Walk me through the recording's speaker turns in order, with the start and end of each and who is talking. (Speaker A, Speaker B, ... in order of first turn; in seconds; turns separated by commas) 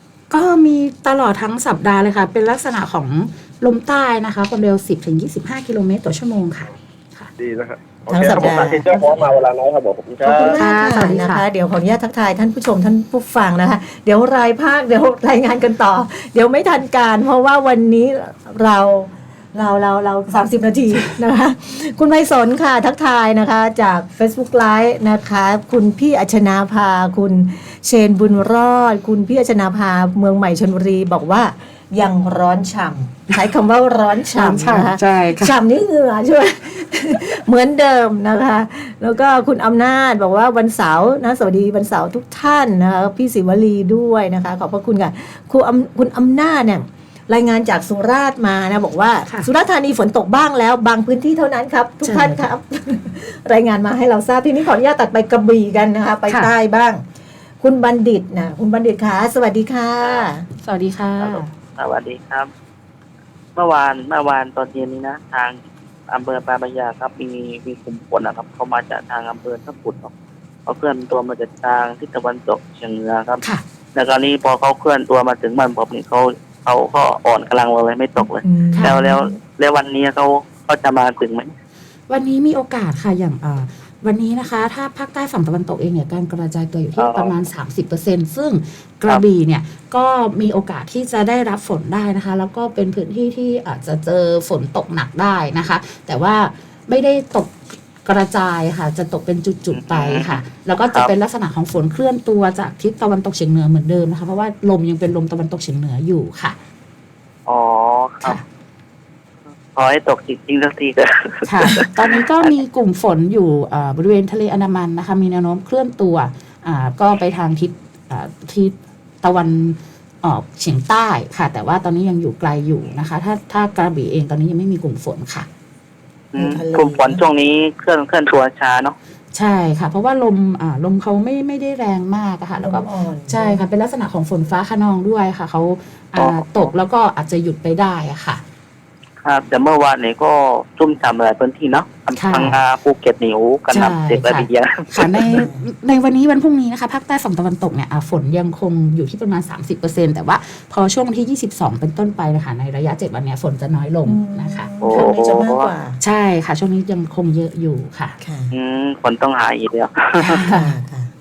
Speaker A: 0.3-7.3, Speaker B: 7.4-10.6, Speaker C: 8.1-8.9, Speaker A: 8.9-9.4, Speaker C: 10.2-57.0, Speaker A: 10.4-11.4, Speaker A: 34.4-35.5, Speaker A: 52.0-52.4, Speaker C: 57.6-60.5, Speaker D: 60.0-60.3, Speaker A: 60.6-61.5, Speaker D: 61.2-62.5, Speaker D: 63.6-65.6, Speaker D: 66.1-70.1, Speaker D: 70.7-73.4, Speaker D: 74.0-81.5, Speaker C: 78.4-79.3, Speaker A: 78.7-79.0, Speaker A: 82.1-106.6, Speaker D: 87.0-87.3, Speaker D: 99.7-100.4, Speaker D: 107.5-108.4, Speaker D: 109.8-112.5, Speaker A: 111.5-125.5, Speaker D: 126.3-129.0, Speaker C: 126.3-127.2, Speaker A: 129.3-138.4, Speaker C: 132.6-133.6, Speaker D: 136.2-136.7, Speaker D: 139.2-145.3, Speaker A: 142.2-142.6, Speaker A: 143.7-155.1, Speaker C: 145.2-145.7, Speaker C: 154.1-156.0, Speaker D: 154.8-155.7, Speaker A: 156.0-158.2, Speaker C: 158.2-158.5, Speaker D: 158.5-160.4, Speaker A: 160.2-160.7, Speaker C: 160.4-161.1